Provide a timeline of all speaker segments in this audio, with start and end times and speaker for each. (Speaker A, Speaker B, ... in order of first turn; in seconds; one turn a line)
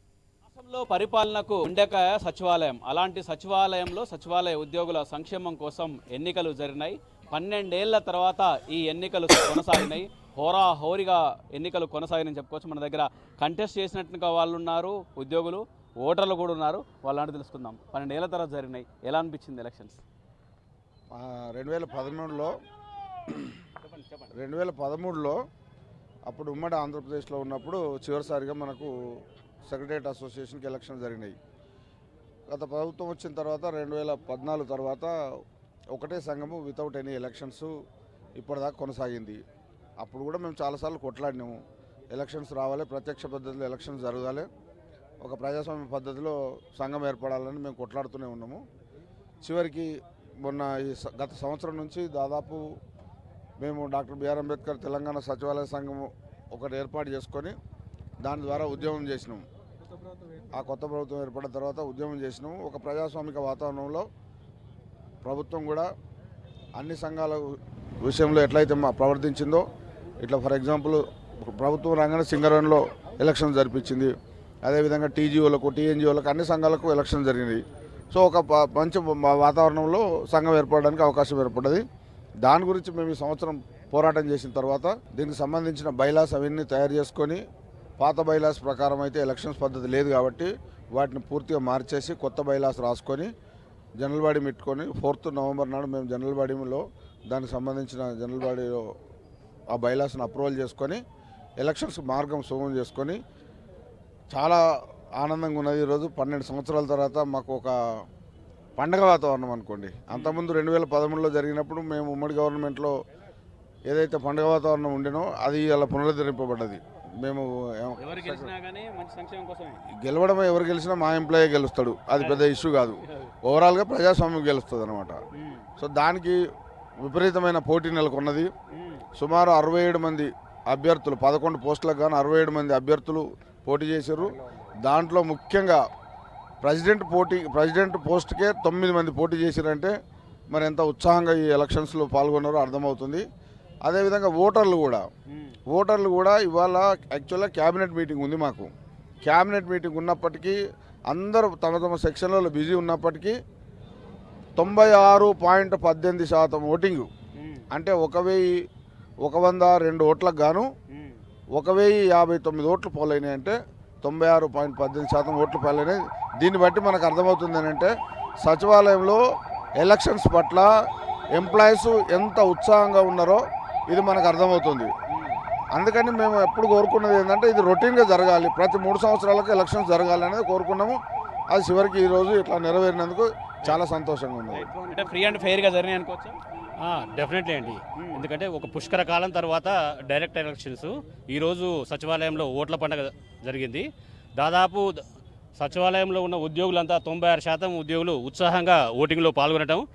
Speaker A: 0.5-20.0
Speaker B: 21.1-22.5
Speaker B: 23.3-23.5
Speaker A: 23.8-24.3
Speaker B: 24.3-25.4
Speaker B: 26.3-28.9
Speaker B: 29.7-31.3
Speaker B: 32.5-35.1
Speaker B: 35.9-37.7
Speaker B: 38.4-39.4
Speaker B: 40.0-41.6
Speaker B: 42.1-44.5
Speaker B: 45.2-48.6
Speaker B: 49.4-49.9
Speaker B: 50.4-52.6
Speaker B: 53.6-57.5
Speaker B: 58.2-59.4
Speaker B: 60.5-64.0
Speaker B: 65.2-65.9
Speaker B: 66.8-69.6
Speaker B: 70.2-74.1
Speaker B: 74.6-81.8
Speaker B: 82.4-87.4
Speaker B: 88.0-93.3
Speaker B: 94.0-98.8
Speaker B: 99.7-101.0
Speaker B: 101.6-103.2
Speaker B: 104.3-104.6
Speaker B: 105.2-107.7
Speaker B: 108.8-112.9
Speaker A: 110.1-110.4
Speaker B: 113.9-118.5
Speaker A: 118.0-119.8
Speaker B: 120.0-125.2
Speaker A: 122.2-122.4
Speaker A: 125.4-125.6
Speaker B: 125.8-126.4
Speaker B: 127.0-128.5
Speaker A: 128.7-129.0
Speaker B: 129.2-135.8
Speaker B: 136.6-139.9
Speaker B: 140.5-143.2
Speaker B: 143.8-145.0
Speaker A: 145.3-145.6
Speaker B: 145.7-148.7
Speaker B: 149.2-150.6
Speaker B: 151.1-153.3
Speaker B: 154.6-157.1
Speaker A: 157.4-157.6
Speaker B: 157.7-158.4
Speaker B: 159.2-160.7
Speaker A: 160.9-161.2
Speaker B: 161.6-167.9
Speaker B: 168.4-169.2
Speaker B: 169.8-170.7
Speaker B: 171.3-174.9
Speaker A: 175.1-175.4
Speaker B: 175.7-181.0
Speaker B: 181.5-184.7
Speaker A: 184.5-186.4
Speaker C: 186.8-193.8
Speaker A: 188.0-188.2
Speaker C: 194.4-195.0
Speaker C: 195.6-199.8